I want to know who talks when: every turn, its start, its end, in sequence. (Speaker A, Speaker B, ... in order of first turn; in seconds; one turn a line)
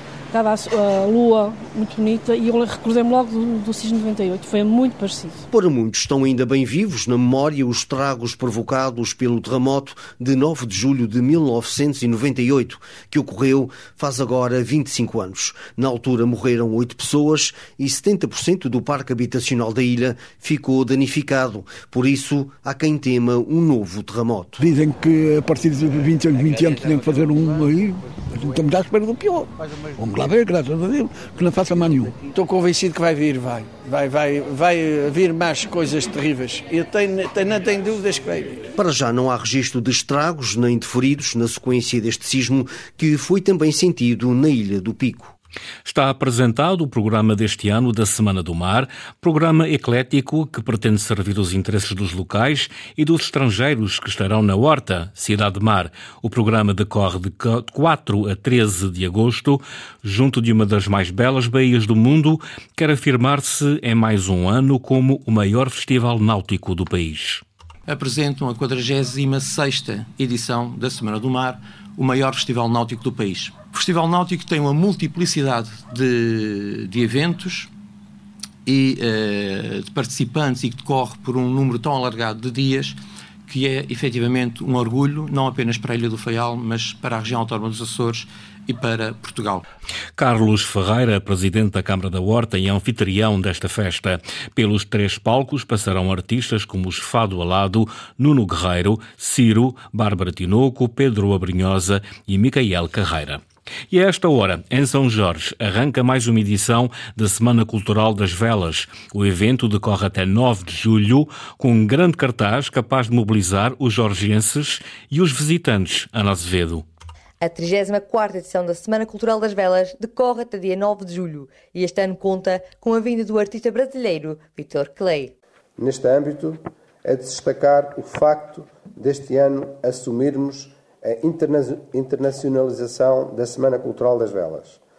Speaker A: 0.3-5.4
Speaker B: 5.5-24.6
Speaker C: 24.6-32.1
Speaker D: 32.3-38.6
Speaker B: 38.8-45.3
Speaker E: 45.8-67.4
Speaker F: 67.9-77.7
Speaker F: 78.7-82.9
Speaker F: 83.5-89.6
Speaker E: 90.2-116.8
Speaker G: 117.4-125.3
Speaker H: 125.8-134.8